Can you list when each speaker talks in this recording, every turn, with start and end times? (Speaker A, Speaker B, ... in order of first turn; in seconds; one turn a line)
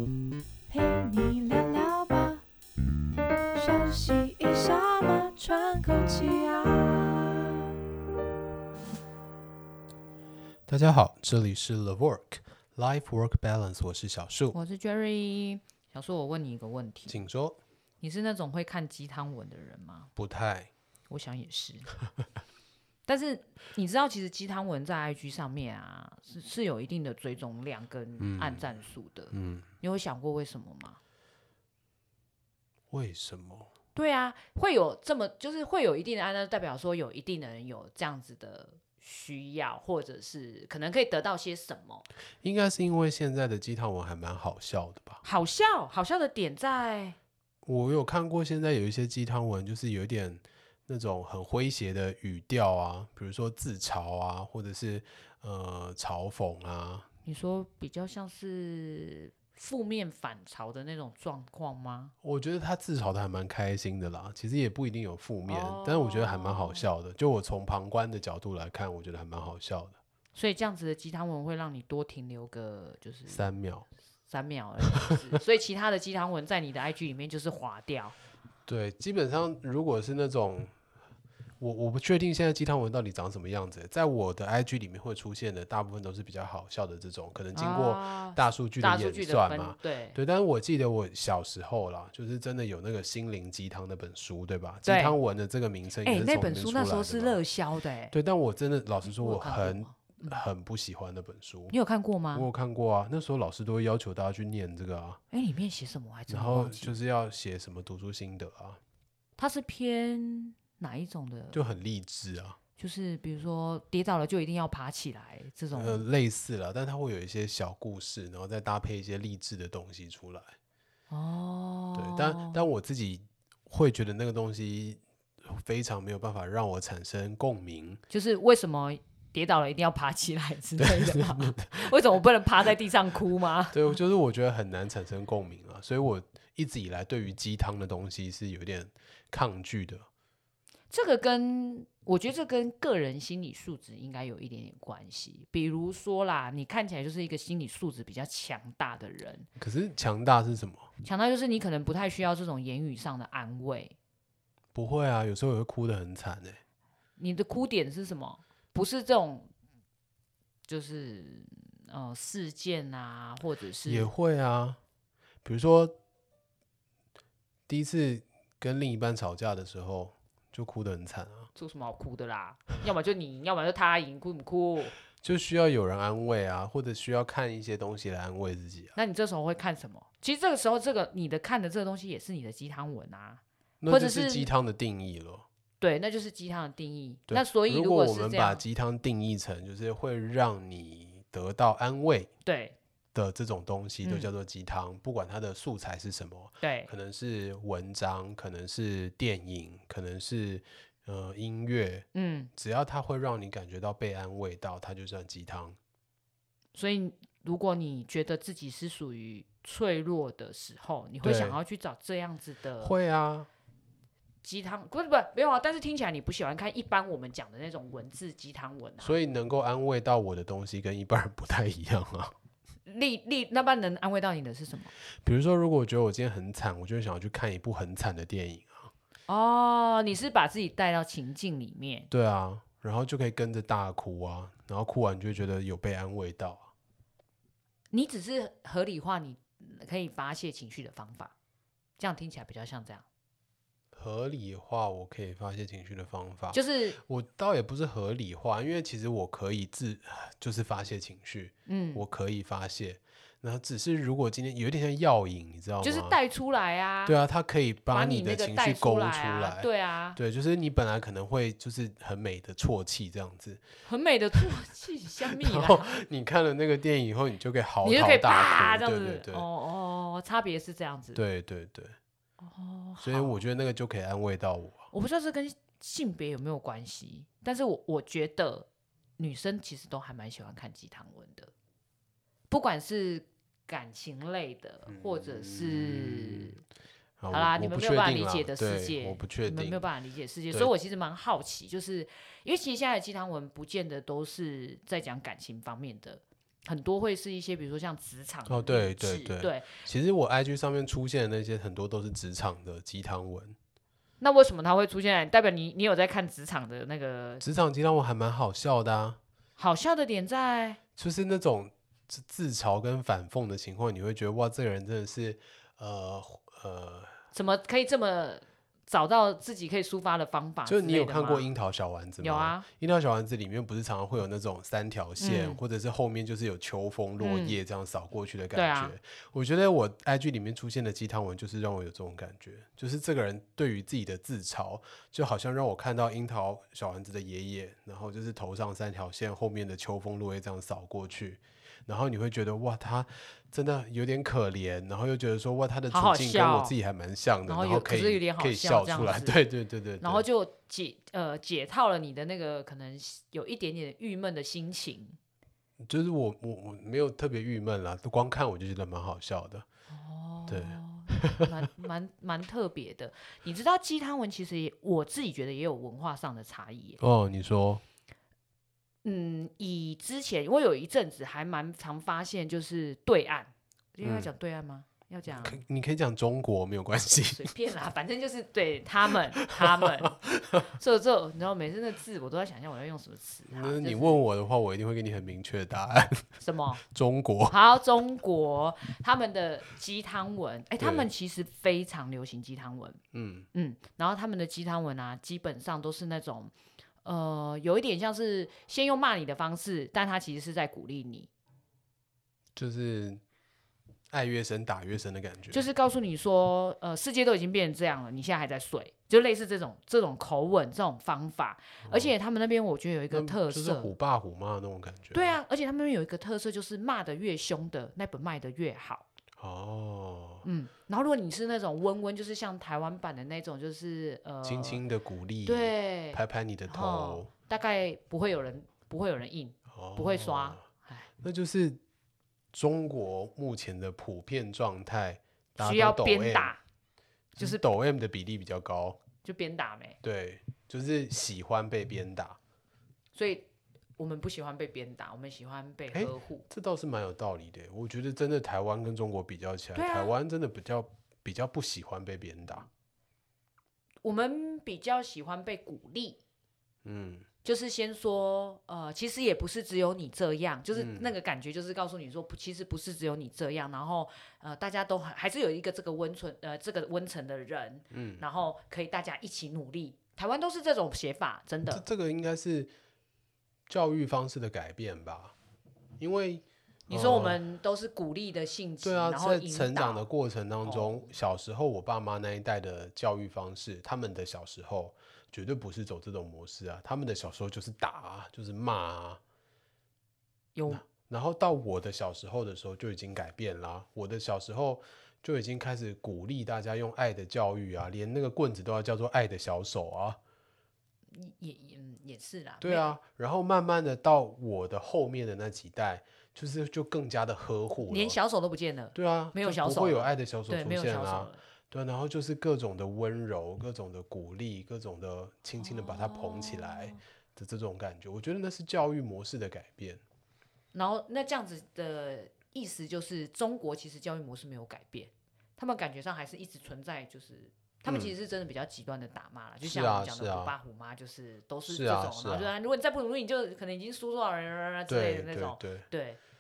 Speaker A: 0.7-2.4
Speaker A: 3.6-7.6
Speaker B: 10.7-14.6
Speaker C: 14.5-17.2
Speaker B: 17.1-17.6
Speaker C: 18.0-20.1
Speaker B: 20.2-20.7
Speaker C: 21.1-21.9
Speaker C: 23.1-31.0
Speaker B: 28.2-28.7
Speaker B: 29.3-29.7
Speaker B: 32.9-33.7
Speaker C: 34.0-42.0
Speaker B: 42.4-45.2
Speaker C: 45.2-47.2
Speaker B: 47.6-57.1
Speaker C: 57.2-62.1
Speaker B: 62.2-70.0
Speaker C: 65.5-66.9
Speaker C: 70.3-73.5
Speaker B: 73.3-73.9
Speaker C: 74.3-78.2
Speaker B: 78.7-80.7
Speaker B: 81.6-97.4
Speaker C: 87.5-90.2
Speaker C: 94.9-95.2
Speaker C: 96.0-98.1
Speaker B: 98.1-101.8
Speaker C: 99.0-100.4
Speaker C: 101.7-102.5
Speaker B: 102.3-105.2
Speaker C: 105.3-107.0
Speaker B: 106.3-108.8
Speaker C: 109.4-111.7
Speaker B: 111.5-112.6
Speaker C: 112.8-116.0
Speaker B: 115.7-120.6
Speaker C: 121.1-122.7
Speaker B: 122.0-128.0
Speaker C: 128.1-134.0
Speaker B: 130.8-132.0
Speaker B: 133.7-140.1
Speaker C: 140.9-149.5
Speaker B: 149.6-150.9
Speaker C: 151.0-153.9
Speaker B: 154.8-156.6
Speaker C: 157.2-159.5
Speaker C: 160.7-164.1
Speaker B: 163.8-164.8
Speaker B: 165.4-165.9
Speaker B: 167.7-171.5
Speaker C: 171.6-174.9
Speaker B: 175.2-179.0
Speaker C: 178.9-184.5
Speaker B: 183.8-185.5
Speaker C: 185.8-188.7
Speaker B: 187.3-192.3
Speaker C: 192.4-192.8
Speaker B: 193.2-205.8
Speaker C: 194.0-194.3
Speaker C: 196.6-196.9
Speaker C: 202.1-202.5
Speaker C: 206.7-213.0
Speaker B: 211.2-211.6
Speaker B: 212.8-213.5
Speaker C: 214.4-219.2
Speaker B: 219.0-222.3
Speaker C: 222.9-224.9
Speaker B: 225.2-228.9
Speaker C: 229.3-232.1
Speaker B: 232.1-236.7
Speaker C: 237.9-241.3
Speaker C: 242.0-243.1
Speaker B: 243.9-256.2
Speaker C: 246.5-247.0
Speaker C: 251.7-252.0
Speaker C: 255.8-257.2
Speaker B: 257.1-263.6
Speaker C: 257.9-260.2
Speaker C: 263.9-266.0
Speaker B: 265.2-269.5
Speaker C: 267.8-271.2
Speaker B: 271.1-271.9
Speaker C: 272.4-273.4
Speaker B: 273.0-274.9
Speaker C: 274.9-281.5
Speaker C: 282.5-286.6
Speaker B: 284.9-286.6
Speaker B: 287.2-289.9
Speaker C: 287.3-299.8
Speaker B: 298.5-303.6
Speaker C: 304.2-307.4
Speaker B: 307.4-309.2
Speaker C: 309.6-310.8
Speaker B: 311.0-317.2
Speaker C: 317.3-321.5
Speaker B: 320.6-350.3
Speaker C: 322.2-322.7
Speaker C: 325.2-325.6
Speaker C: 327.2-327.6
Speaker C: 328.5-328.9
Speaker C: 345.9-346.8
Speaker C: 347.5-349.4
Speaker C: 350.0-355.2
Speaker B: 355.8-359.7
Speaker C: 359.9-367.0
Speaker B: 360.5-361.5
Speaker B: 367.0-367.8
Speaker C: 369.0-375.6
Speaker B: 374.0-374.3
Speaker B: 375.3-377.5
Speaker C: 377.3-384.2
Speaker B: 379.1-380.6
Speaker B: 383.5-387.6
Speaker C: 386.4-386.8
Speaker C: 387.5-393.0
Speaker B: 390.8-391.1
Speaker B: 393.1-393.5
Speaker C: 393.5-401.3
Speaker B: 402.6-403.2
Speaker B: 404.1-405.7
Speaker C: 405.5-413.9
Speaker B: 411.8-412.1
Speaker B: 413.1-415.4
Speaker C: 415.1-419.1
Speaker B: 419.4-420.5
Speaker C: 420.4-424.8
Speaker B: 424.4-427.3
Speaker C: 425.4-431.1
Speaker B: 429.7-430.6
Speaker B: 431.2-431.8
Speaker B: 432.5-436.6
Speaker C: 435.6-436.6
Speaker C: 437.4-437.6
Speaker B: 437.4-439.0
Speaker C: 439.2-440.0
Speaker B: 440.0-442.4
Speaker C: 443.1-446.5
Speaker B: 445.9-452.7
Speaker C: 449.8-450.1
Speaker C: 454.0-456.2
Speaker B: 456.9-457.3
Speaker C: 457.4-471.9
Speaker B: 460.7-461.1
Speaker B: 467.9-468.2
Speaker B: 471.7-472.7
Speaker B: 473.7-475.4
Speaker B: 476.0-477.4
Speaker C: 476.9-480.1
Speaker B: 478.8-489.2
Speaker C: 480.6-481.1
Speaker C: 490.6-490.8
Speaker B: 490.7-500.2
Speaker C: 501.1-503.0
Speaker B: 502.6-508.2
Speaker C: 507.8-511.4
Speaker B: 508.9-520.0
Speaker C: 515.6-517.0
Speaker C: 520.7-536.2
Speaker B: 527.9-528.1
Speaker B: 529.6-530.5
Speaker B: 531.7-532.5
Speaker B: 534.9-535.9